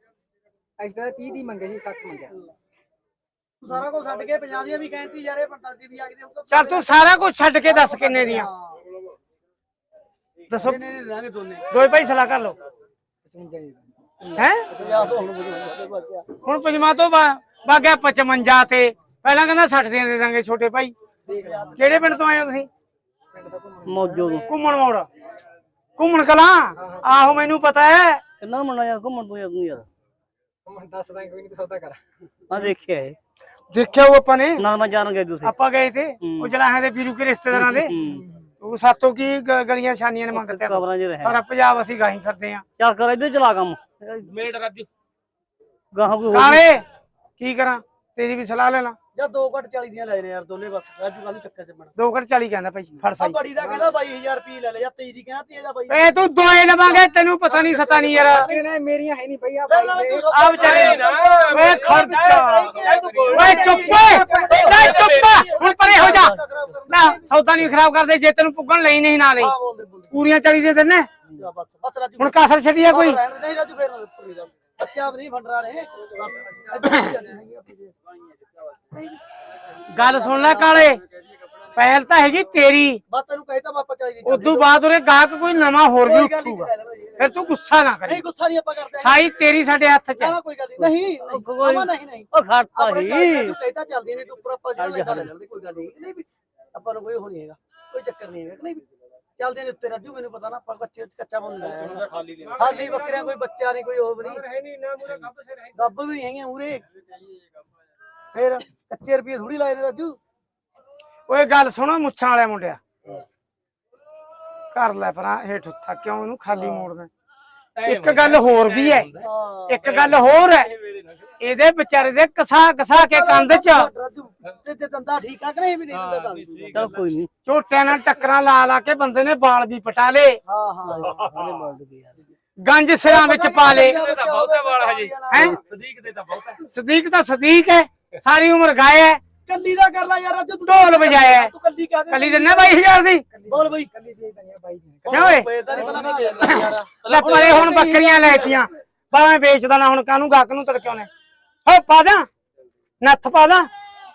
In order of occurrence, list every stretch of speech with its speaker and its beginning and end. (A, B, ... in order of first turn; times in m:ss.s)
0:00.8-0:02.4 A
0:03.6-0:07.0 B
0:06.5-0:08.5 C
0:07.7-0:08.8 B
0:10.5-0:10.8 C
0:10.5-0:11.7 B
0:11.7-0:12.6 C
0:13.2-0:13.9 A
0:14.2-0:16.3 B
0:14.4-0:14.6 C
0:14.7-0:15.2 A
0:16.4-0:20.9 C
0:21.3-0:21.8 A
0:21.3-0:22.2 B
0:21.8-0:22.7 C
0:23.3-0:24.4 A
0:23.8-0:24.5 D
0:24.5-0:25.1 C
0:26.0-0:28.2 C
0:26.8-0:27.2 A
0:28.4-0:29.8 D
0:30.6-0:32.0 A
0:32.5-0:33.2 D
0:33.7-0:34.6 C
0:34.6-0:35.5 D
0:35.4-0:37.9 C
0:36.2-0:36.5 D
0:37.5-0:38.2 D
0:38.0-0:38.5 A
0:38.6-0:42.6 C
0:40.3-0:41.4 D
0:42.8-0:44.3 D
0:44.2-0:44.9 E
0:45.9-0:46.6 D
0:46.3-0:46.8 C
0:47.4-0:49.0 C
0:49.1-0:51.9 B
0:52.0-0:53.4 C
0:53.1-0:56.0 B
0:53.6-0:53.9 A
0:55.9-0:58.5 C
0:56.8-0:58.6 B
0:58.3-1:00.8 A
0:59.7-1:07.2 B
1:00.3-1:06.4 C
1:00.5-1:03.7 E
1:01.4-1:02.0 A
1:03.3-1:04.9 A
1:04.6-1:05.5 E
1:06.9-1:09.5 C
1:09.4-1:10.1 B
1:10.1-1:11.1 C
1:11.3-1:17.9 B
1:12.2-1:13.2 C
1:16.8-1:17.1 C
1:18.9-1:19.2 B
1:19.9-1:21.0 C
1:20.0-1:20.9 B
1:21.7-1:23.0 C
1:23.1-1:24.7 B
1:24.2-1:28.2 C
1:26.0-1:27.3 B
1:28.1-1:29.3 B
1:29.0-1:30.3 C
1:30.2-1:38.8 B
1:30.8-1:33.5 D
1:34.8-1:35.3 D
1:39.4-1:44.4 B
1:42.0-1:42.8 E
1:44.5-1:45.5 E
1:45.7-1:46.8 B
1:48.3-1:50.2 B
1:51.3-1:52.8 C
1:54.7-1:57.1 C
1:57.8-1:59.2 E
1:57.8-1:59.2 C
1:59.2-1:59.9 B
1:59.7-2:00.7 C
1:59.9-2:00.2 E
2:00.8-2:01.3 E
2:01.4-2:03.9 C
2:02.9-2:06.8 B
2:05.9-2:07.0 E
2:06.7-2:07.3 D
2:07.4-2:10.4 C
2:10.5-2:11.2 B
2:10.9-2:12.2 D
2:12.6-2:14.0 C
2:13.0-2:15.6 B
2:13.8-2:16.6 E
2:15.3-2:15.6 C
2:16.7-2:19.2 C
2:19.5-2:22.8 B
2:20.6-2:21.5 C
2:22.1-2:23.2 C
2:23.3-2:26.3 A
2:23.5-2:23.9 B
2:25.0-2:28.6 B
2:25.1-2:25.5 C
2:26.4-2:31.1 C
2:31.6-2:32.3 C
2:33.0-2:33.7 C